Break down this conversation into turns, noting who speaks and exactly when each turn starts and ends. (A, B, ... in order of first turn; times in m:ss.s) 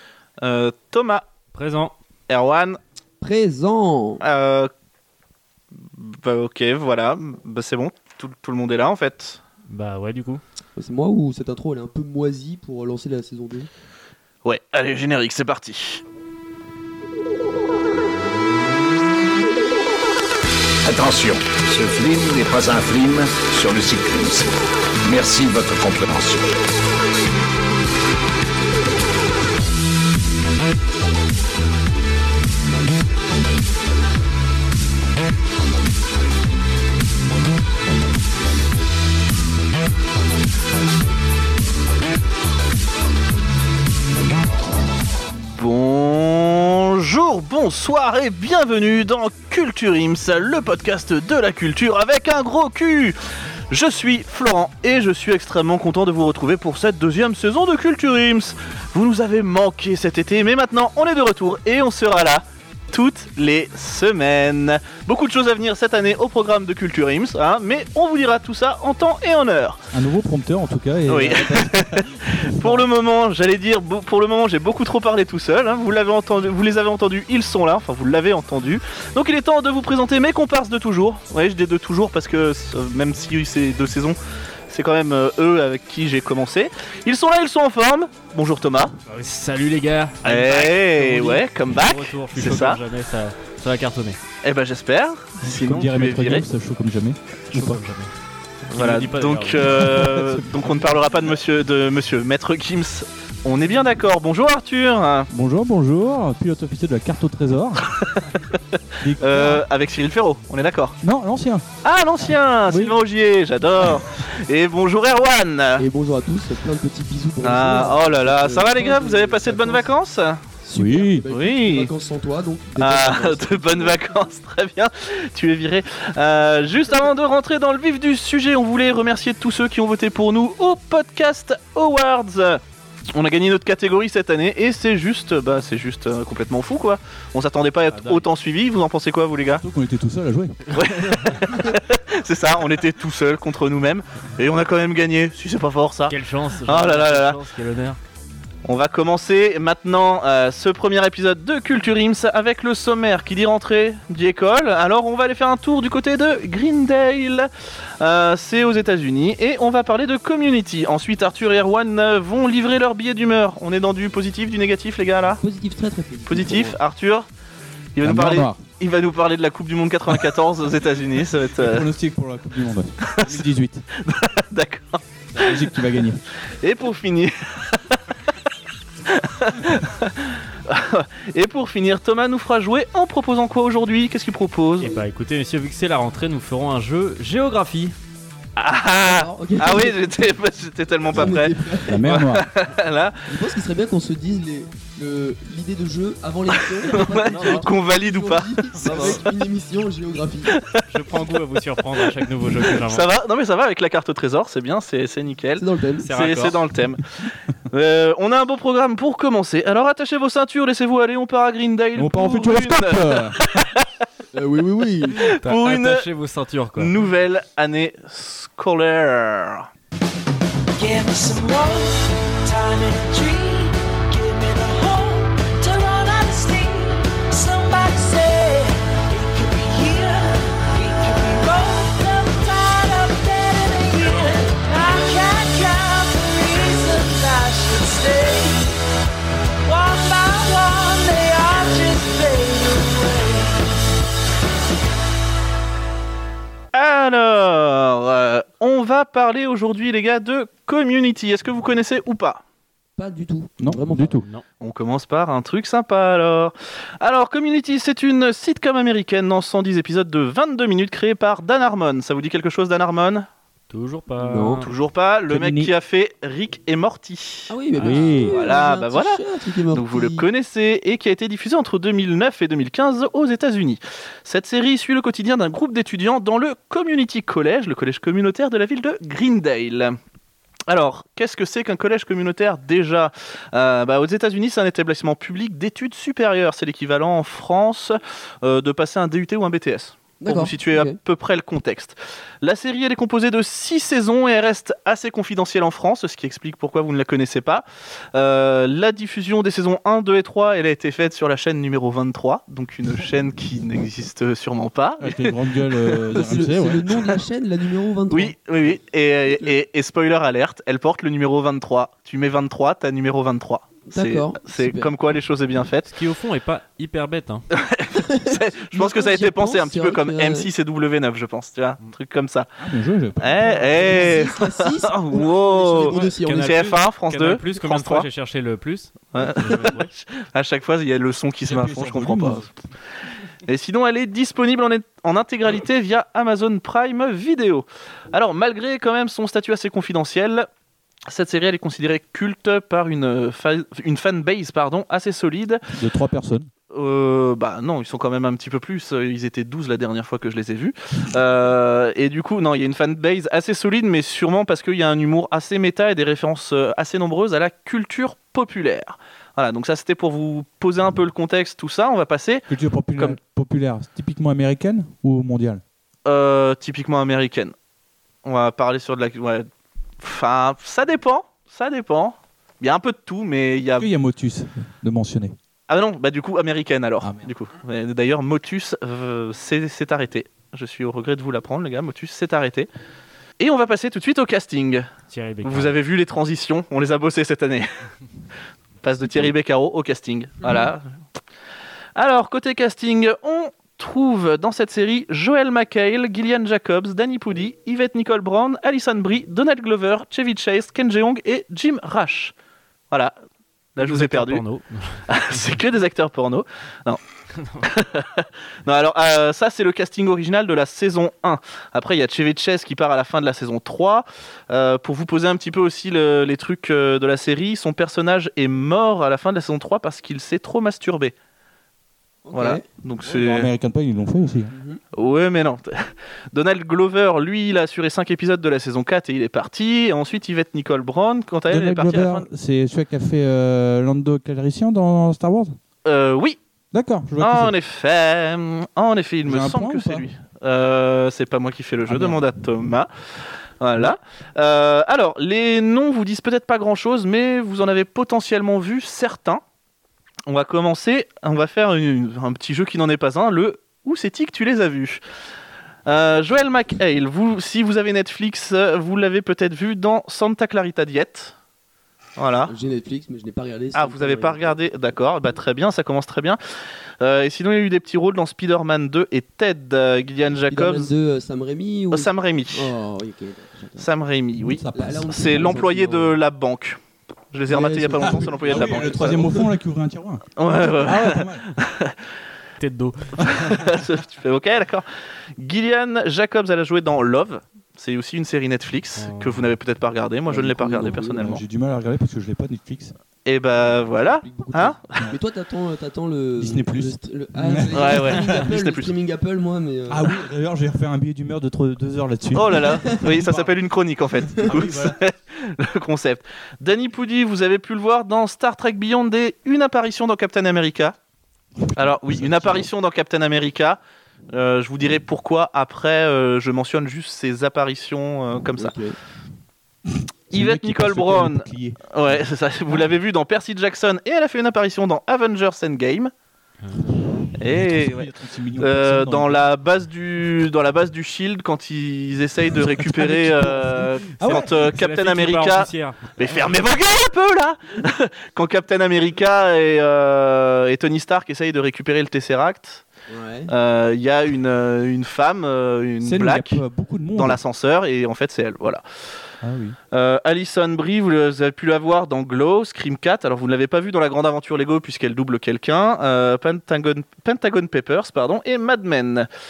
0:00.4-0:01.3 A
0:01.5-0:01.9 B
0:02.3-0:02.8 A
0:03.2-0:04.2 C
0:04.2-0:04.7 A
0:05.8-0:09.4 A
0:09.7-0:10.4 B
0:10.8-0:13.7 C
0:14.4-0:16.0 A
0:20.8-0:26.5 D
0:45.6-0:53.2 A
0:53.7-1:09.8 A
1:09.9-1:12.9 E
1:11.1-1:24.2 A
1:24.7-1:29.0 A
1:29.1-1:34.2 B
1:30.2-1:32.8 A
1:34.4-1:36.4 A
1:35.4-1:37.8 E
1:37.5-1:38.1 B
1:38.7-1:45.3 A
1:38.8-1:39.8 B
1:39.6-1:41.2 E
1:45.3-1:47.8 E
1:48.0-1:48.6 A
1:49.0-1:49.6 E
1:49.2-1:51.0 A
1:51.0-1:51.7 E
1:51.8-1:55.9 A
1:52.7-1:53.0 E
1:55.8-1:59.9 C
1:57.4-2:00.4 A
2:00.6-2:04.0 C
2:00.7-2:01.3 E
2:01.3-2:01.9 A
2:02.8-2:12.6 A
2:13.1-2:19.6 A
2:17.9-2:18.2 B
2:19.6-2:20.6 E
2:20.7-2:27.4 A
2:26.1-2:28.0 B
2:28.6-2:45.4 A
2:45.4-2:46.8 C
2:46.3-2:47.3 A
2:48.0-2:51.9 A
2:48.0-2:48.6 E
2:51.6-2:53.8 E
2:54.0-2:55.6 A
2:55.4-2:56.2 E
2:56.6-2:58.0 A
2:59.1-3:05.0 A
3:04.8-3:08.0 B
3:08.6-3:13.2 A
3:09.1-3:10.1 C
3:11.1-3:12.0 C
3:11.8-3:12.5 E
3:13.3-3:20.5 C
3:16.8-3:19.2 A
3:17.2-3:17.7 B
3:18.8-3:19.2 B
3:20.5-3:20.8 A
3:20.9-3:23.1 B
3:22.7-3:27.0 A
3:25.6-3:26.1 C
3:26.0-3:26.6 B
3:27.7-3:33.8 A
3:32.0-3:33.4 E
3:34.3-3:35.2 C
3:35.4-3:36.1 A
3:35.4-3:36.9 B
3:36.8-3:39.7 A
3:40.8-3:58.7 F
3:59.6-4:03.6 F
4:06.7-4:12.4 A
4:13.0-4:14.2 C
4:13.6-4:14.3 E
4:14.6-4:23.3 A
4:23.7-4:24.7 B
4:24.2-4:24.7 C
4:24.6-4:27.5 A
4:25.3-4:25.7 E
4:27.5-4:30.3 C
4:27.8-4:28.4 E
4:27.8-4:28.0 B
4:28.3-4:40.0 A
4:40.7-5:06.4 A
4:50.2-4:51.0 C
5:05.0-5:06.9 E
5:06.1-5:08.4 C
5:08.1-5:15.9 A
5:09.3-5:09.6 C
5:13.9-5:14.9 C
5:15.9-5:17.5 B
5:17.6-5:22.5 A
5:18.0-5:20.5 C
5:22.6-5:24.2 E
5:23.2-5:28.1 A
5:23.7-5:26.8 C
5:25.9-5:29.9 B
5:29.1-5:32.5 A
5:31.4-5:32.5 E
5:33.4-5:40.5 A
5:41.1-5:45.6 A
5:45.7-5:46.5 E
5:46.7-6:02.5 A
6:02.5-6:05.6 E
6:06.1-6:07.5 A
6:08.2-6:09.5 A
6:10.0-6:13.9 A
6:13.8-6:15.4 E
6:15.7-6:22.7 A
6:17.0-6:17.3 E
6:23.4-6:24.9 A
6:25.1-6:25.8 B
6:25.4-6:27.7 A
6:28.8-6:30.8 A
6:32.0-6:42.3 A
6:43.8-6:44.4 A
6:43.8-6:45.5 B
6:45.1-6:47.0 A
6:47.3-6:47.7 B
6:47.6-7:01.1 A
7:02.2-7:02.6 C
7:02.3-7:03.5 A
7:03.0-7:04.5 E
7:04.5-7:04.8 C
7:04.9-7:12.3 A
7:11.5-7:15.6 E
7:15.8-7:16.4 A
7:16.7-7:17.5 E
7:17.2-7:22.9 A
7:19.2-7:20.1 E
7:21.9-7:22.2 E
7:23.6-7:29.4 A
7:30.3-7:35.0 A
7:35.9-7:41.4 A
7:42.2-7:42.5 A
7:42.5-7:44.7 C
7:43.7-7:46.4 A
7:47.0-7:50.9 A
7:50.5-7:53.9 C
7:51.9-7:52.7 A
7:53.8-7:56.8 A
7:54.4-7:55.6 E
7:54.7-7:56.2 C
7:57.3-7:59.2 A
7:57.5-7:59.5 C
7:58.1-8:01.5 E
8:00.4-8:01.9 A
8:02.6-8:03.6 B
8:03.6-8:04.9 A
8:05.4-8:11.4 A
8:09.0-8:09.5 B
8:10.3-8:11.3 C
8:10.8-8:12.9 E
8:13.2-8:14.8 A
8:14.0-8:20.1 C
8:16.4-8:18.3 E
8:17.7-8:18.9 A
8:19.9-8:23.6 E
8:22.4-8:31.0 A
8:24.3-8:25.0 E
8:31.6-8:32.7 E
8:31.8-8:33.8 A
8:34.3-8:38.8 A
8:38.6-8:39.0 C
8:40.3-8:42.8 E
8:40.3-8:46.1 A
8:47.4-8:49.5 E
8:47.4-9:02.8 A
8:52.5-8:54.5 E
8:54.2-8:56.0 B
9:03.1-9:03.5 C
9:03.5-9:06.6 A
9:06.0-9:07.4 E
9:07.2-9:08.8 A
9:09.4-9:09.8 E
9:09.9-9:19.3 A